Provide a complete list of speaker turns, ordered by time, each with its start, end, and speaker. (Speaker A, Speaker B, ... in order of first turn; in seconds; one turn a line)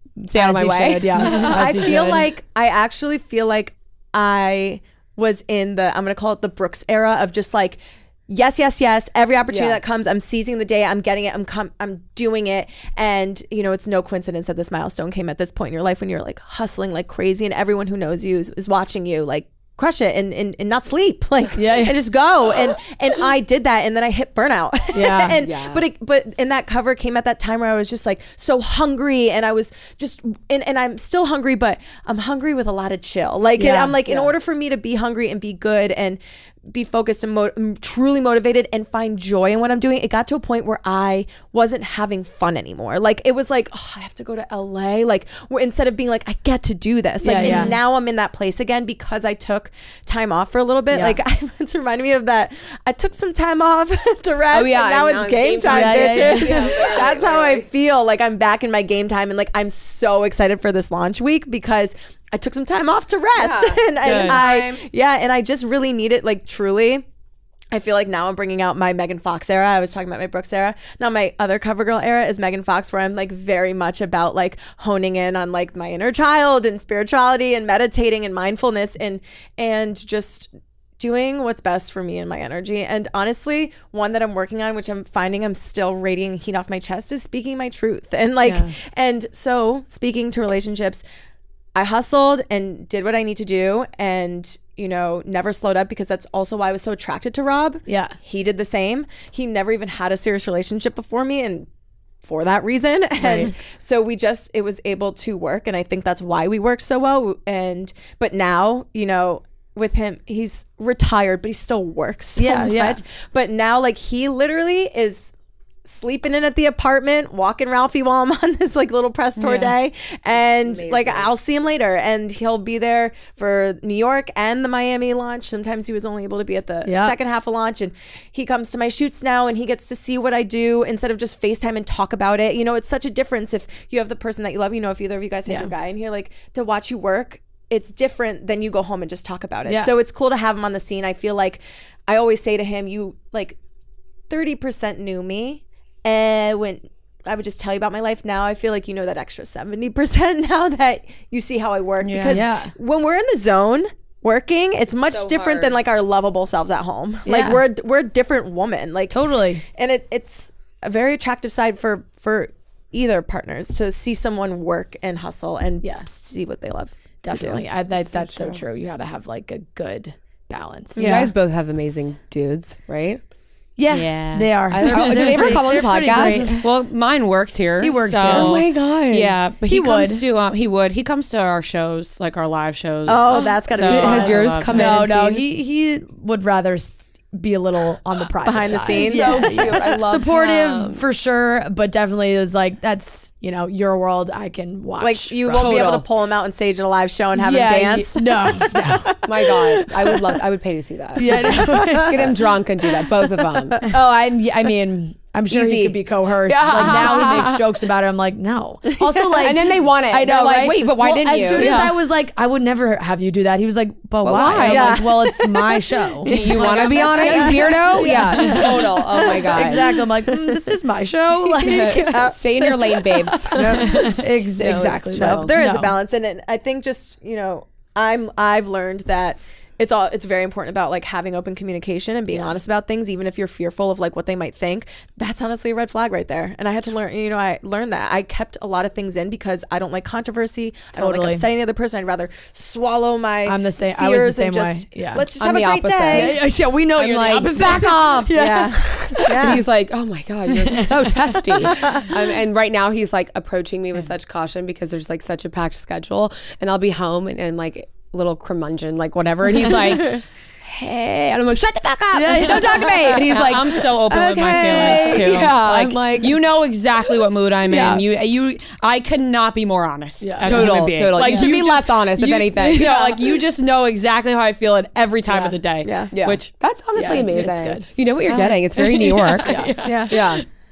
Speaker A: 0.2-1.9
Speaker B: 0.3-2.3
Speaker C: 1.2-67.0
Speaker A: 9.5-9.8
Speaker B: 21.6-22.0
Speaker B: 24.9-25.4
Speaker A: 25.4-25.8
Speaker B: 33.6-34.0
Speaker A: 34.1-34.3
Speaker B: 47.2-47.8
Speaker B: 50.9-51.2
Speaker A: 54.5-57.7
Speaker B: 55.6-56.9
Speaker A: 63.4-64.8
Speaker D: 64.0-64.4
Speaker C: 67.7-91.0
Speaker B: 88.4-88.7
Speaker C: 91.8-101.7
Speaker B: 97.9-98.2
Speaker C: 102.2-115.3
Speaker B: 103.2-103.5
Speaker B: 112.4-113.0
Speaker C: 115.8-143.6
Speaker D: 119.4-119.7
Speaker A: 120.4-121.3
Speaker B: 126.8-127.2
Speaker B: 135.5-135.7
Speaker B: 139.7-139.9
Speaker C: 144.3-167.7
Speaker D: 152.0-152.4
Speaker B: 152.3-152.7
Speaker A: 155.0-155.8
Speaker B: 157.2-157.6
Speaker B: 159.1-159.6
Speaker B: 165.8-166.1
Speaker B: 167.2-171.3
Speaker C: 170.9-171.3
Speaker A: 171.0-173.2
Speaker B: 173.8-176.6
Speaker D: 173.9-175.4
Speaker A: 174.7-176.6
Speaker D: 176.5-185.0
Speaker B: 177.8-178.7
Speaker A: 178.2-179.4
Speaker B: 179.6-180.2
Speaker C: 183.1-184.4
Speaker A: 183.7-185.4
Speaker B: 184.7-196.0
Speaker C: 188.4-190.0
Speaker A: 188.9-191.1
Speaker C: 195.0-200.2
Speaker A: 195.5-196.1
Speaker B: 197.3-199.2
Speaker A: 199.2-203.9
Speaker B: 201.2-202.5
Speaker C: 201.3-202.4
Speaker B: 203.8-225.9
Speaker A: 205.5-206.0
Speaker C: 206.5-207.6
Speaker A: 206.7-207.5
Speaker C: 208.9-209.4
Speaker A: 209.2-211.9
Speaker C: 211.4-211.9
Speaker A: 214.2-215.1
Speaker C: 214.6-220.6
Speaker A: 216.2-219.9
Speaker C: 221.4-223.0
Speaker A: 221.7-225.5
Speaker C: 223.5-246.4
Speaker D: 223.9-224.2
Speaker B: 240.9-241.4
Speaker B: 243.4-245.3
Speaker A: 245.4-266.4
Speaker B: 246.1-249.6
Speaker D: 247.0-247.9
Speaker C: 248.3-249.7
Speaker B: 250.6-251.9
Speaker C: 251.6-252.1
Speaker B: 262.1-263.2
Speaker C: 262.4-265.6
Speaker D: 263.4-276.5
Speaker B: 267.7-268.0
Speaker B: 270.2-270.9
Speaker A: 270.4-273.3
Speaker C: 271.2-271.5
Speaker C: 275.8-276.1
Speaker A: 276.1-280.4
Speaker B: 276.9-277.9
Speaker D: 278.3-280.4
Speaker B: 279.5-280.0
Speaker C: 279.9-280.1